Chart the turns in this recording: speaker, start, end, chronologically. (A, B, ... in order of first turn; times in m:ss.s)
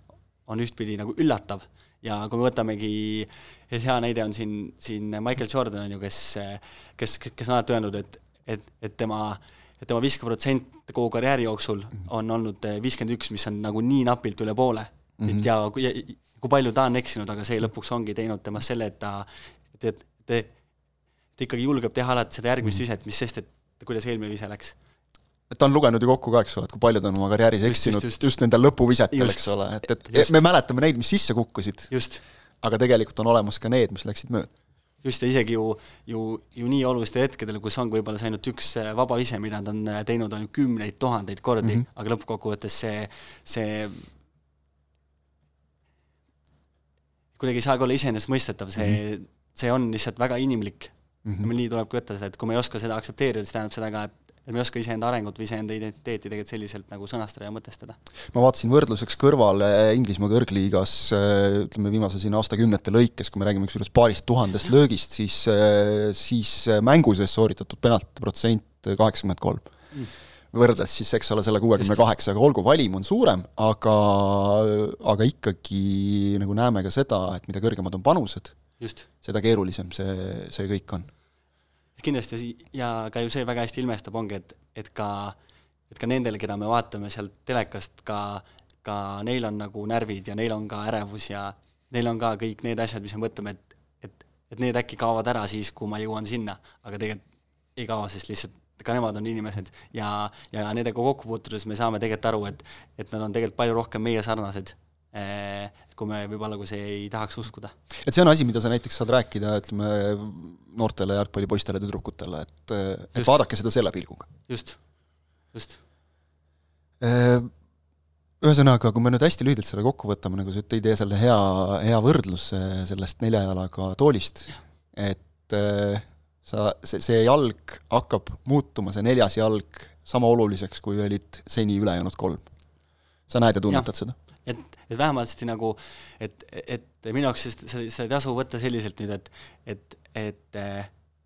0:00.5-0:20.5 A
0:15.2-0:15.5 B
0:21.4-0:24.8 A
0:25.5-0:31.9 B
0:27.6-0:28.3 A
0:29.1-0:30.4 A
0:31.9-0:32.2 A
0:32.6-0:34.5 B
0:35.0-0:44.1 A
0:47.4-0:58.0 A
0:51.2-0:51.5 B
0:58.3-1:09.7 B
1:10.5-1:18.6 B
1:18.8-1:19.1 A
1:19.2-1:21.1 B
1:22.0-1:25.4 A
1:25.9-1:37.2 A
1:37.8-1:47.7 A
1:48.0-1:54.3 B
1:54.5-1:54.8 A
1:55.5-1:55.8 A
1:57.0-1:57.5 B
1:58.4-2:12.5 B
2:13.3-2:14.2 B
2:14.4-2:20.9 A